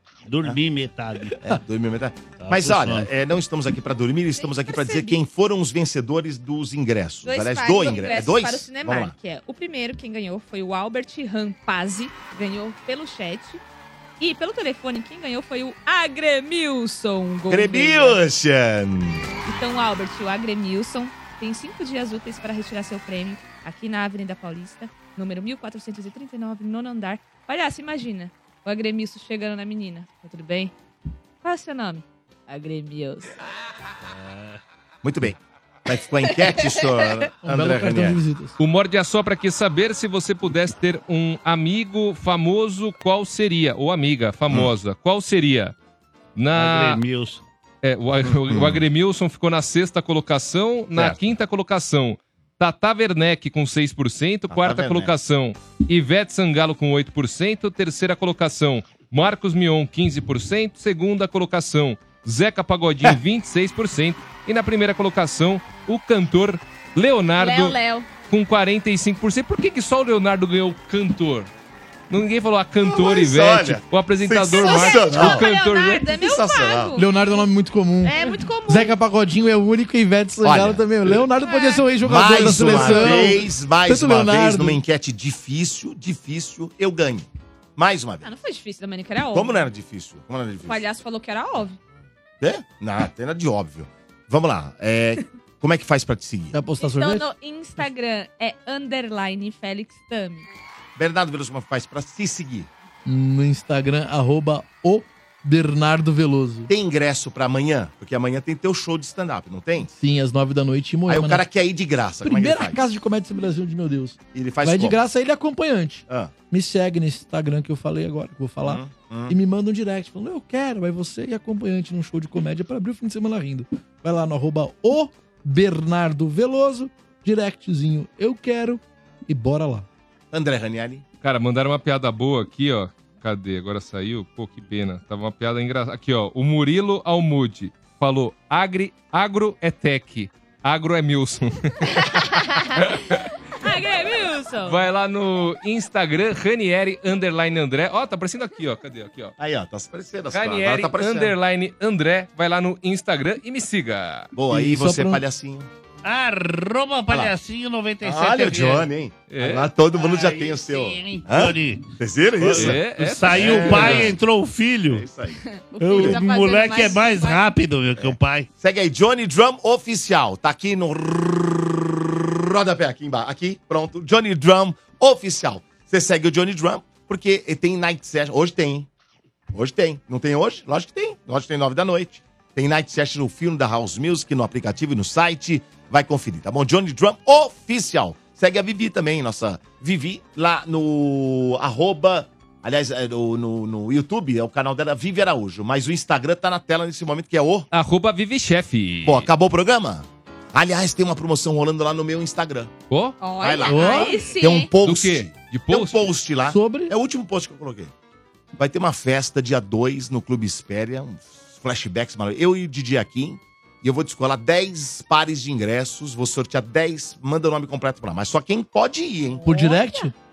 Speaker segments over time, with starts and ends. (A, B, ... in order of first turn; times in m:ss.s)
0:00.3-0:01.4 A
0:01.4-0:09.1 B
0:02.4-0:03.1 A
0:04.4-0:05.2 C
0:07.2-0:13.6 C
0:14.2-0:18.2 C
0:17.5-0:19.3 B
0:19.4-0:30.7 C
0:31.4-0:33.3 C
0:34.0-0:34.6 A
0:35.0-0:38.2 B
0:37.4-0:38.6 D
0:38.6-0:45.7 E
0:46.4-0:47.0 E
0:46.5-0:47.4 A
0:47.8-1:11.5 E
0:48.5-0:48.8 B
0:50.9-0:51.2 B
0:54.5-0:55.1 B
1:07.4-1:08.1 C
1:12.1-1:16.1 E
1:12.8-1:15.5 B
1:14.6-1:17.4 C
1:16.1-1:17.0 B
1:16.9-1:24.8 D
1:18.0-1:18.9 C
1:20.4-1:21.2 B
1:21.4-1:23.2 C
1:22.0-1:28.3 B
1:28.2-1:29.6 C
1:29.3-1:30.8 B
1:30.7-1:31.8 C
1:32.4-1:36.6 B
1:36.5-1:37.3 D
1:36.8-1:40.4 C
1:41.0-1:42.7 B
1:43.0-1:46.7 D
1:46.7-1:49.9 B
1:49.8-1:51.4 D
1:51.1-1:52.8 B
1:52.2-2:09.9 D
1:54.3-1:55.0 B
1:58.6-1:59.3 B
2:10.3-2:11.0 B
2:11.2-2:23.2 E
2:22.0-2:22.9 C
2:23.6-2:24.8 C
2:24.6-2:29.3 E
2:29.4-2:31.3 B
2:30.3-2:34.3 E
2:34.3-2:35.7 B
2:34.5-2:35.2 D
2:36.0-2:38.9 A
2:37.1-2:37.3 B
2:38.0-2:44.2 B
2:39.3-2:39.7 E
2:39.9-2:45.0 A
2:42.5-2:44.1 E
2:44.9-2:45.4 B
2:45.3-2:47.4 C
2:45.8-2:48.5 A
2:46.0-2:46.2 B
2:48.0-2:58.9 B
2:59.5-3:17.7 B
3:17.7-3:19.3 E
3:19.0-3:22.7 B
3:22.9-3:23.2 E
3:23.2-3:24.7 C
3:23.4-3:27.9 B
3:23.6-3:24.2 D
3:24.8-3:26.1 E
3:26.4-3:26.9 D
3:28.6-3:39.4 B
3:39.4-3:40.1 D
3:39.5-3:40.1 C